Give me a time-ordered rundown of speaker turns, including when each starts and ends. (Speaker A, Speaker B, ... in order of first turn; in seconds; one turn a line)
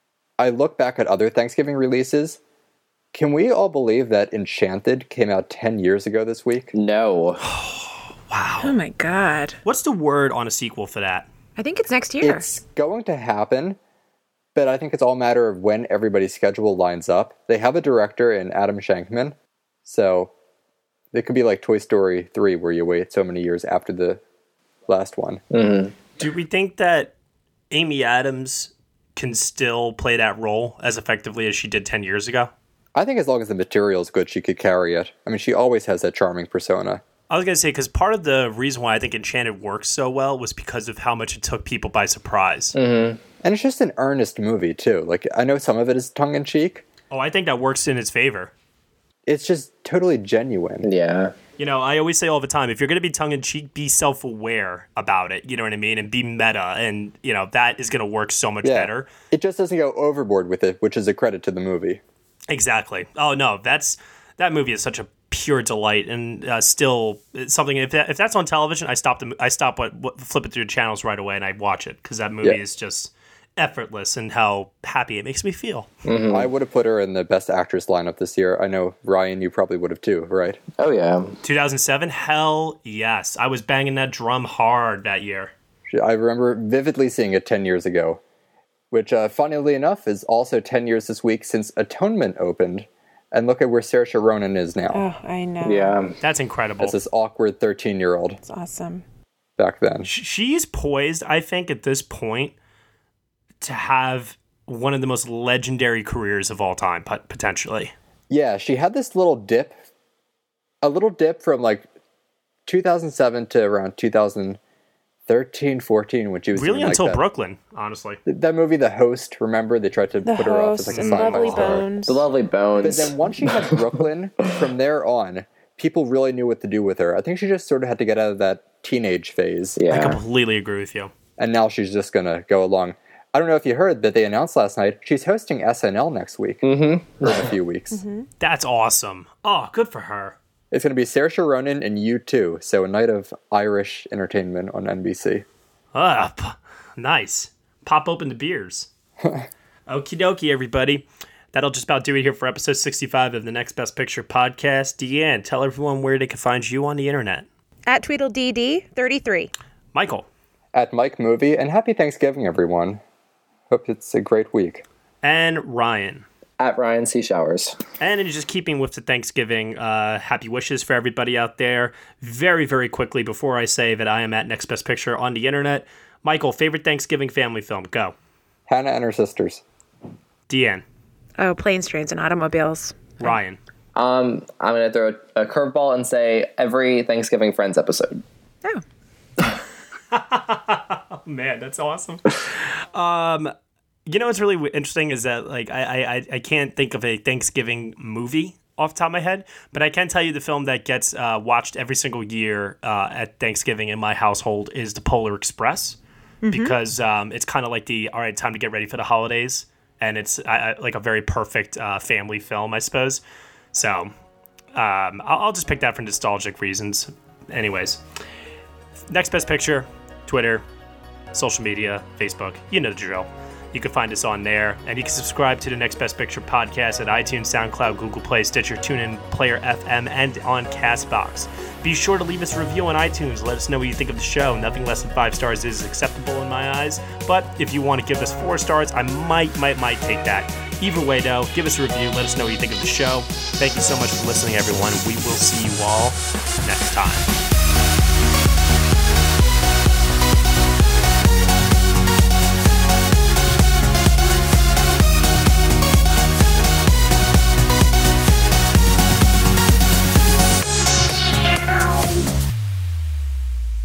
Speaker A: 0.4-2.4
Speaker A: 3.1-6.7
Speaker B: 6.7-7.4
Speaker C: 7.4-8.7
Speaker D: 8.6-9.6
Speaker C: 9.7-11.3
Speaker D: 11.6-12.5
Speaker A: 12.2-13.8
Speaker A: 14.6-19.4
Speaker A: 19.9-20.3
Speaker A: 21.1-24.2
Speaker A: 24.9-25.4
Speaker B: 25.5-25.9
Speaker C: 26.2-27.1
Speaker C: 27.7-32.5
Speaker A: 33.0-37.0
Speaker C: 37.3-42.8
Speaker B: 42.8-43.2
Speaker A: 43.4-46.8
Speaker C: 47.1-48.5
Speaker A: 49.3-50.9
Speaker B: 50.8-51.3
Speaker C: 51.6-59.1
Speaker A: 58.6-62.0
Speaker C: 62.5-75.9
Speaker B: 76.1-76.5
Speaker A: 76.3-80.6
Speaker B: 80.8-81.4
Speaker C: 81.4-85.5
Speaker A: 85.9-88.2
Speaker A: 88.9-95.0
Speaker D: 94.9-96.0
Speaker B: 95.6-96.2
Speaker C: 96.2-97.0
Speaker A: 96.8-98.4
Speaker D: 98.4-99.0
Speaker A: 99.6-100.1
Speaker C: 100.0-102.5
Speaker C: 103.6-107.9
Speaker A: 108.3-109.8
Speaker A: 110.8-111.9
Speaker A: 112.7-114.6
Speaker A: 115.3-117.2
Speaker C: 116.5-118.2
Speaker A: 118.3-121.9
Speaker D: 120.2-122.2
Speaker C: 120.9-121.4
Speaker B: 121.6-123.7
Speaker A: 122.8-129.8
Speaker B: 129.8-130.2
Speaker C: 129.9-131.1
Speaker A: 131.4-138.0
Speaker B: 136.6-137.5
Speaker D: 137.9-138.2
Speaker C: 138.4-140.4
Speaker A: 140.7-145.4
Speaker C: 145.9-148.9
Speaker C: 149.9-157.5
Speaker D: 157.9-159.5
Speaker C: 159.9-160.3
Speaker A: 160.7-163.0
Speaker A: 163.7-164.8
Speaker C: 165.2-166.2
Speaker B: 166.6-167.8
Speaker C: 168.0-178.1
Speaker A: 178.7-179.6
Speaker C: 180.5-180.8
Speaker D: 181.4-183.3
Speaker C: 183.2-183.6
Speaker B: 183.9-188.2
Speaker C: 190.1-193.5
Speaker C: 194.1-206.0
Speaker D: 206.4-206.8
Speaker C: 206.5-213.2
Speaker C: 213.7-214.1
Speaker C: 214.7-218.0
Speaker C: 219.1-220.6
Speaker C: 221.3-247.3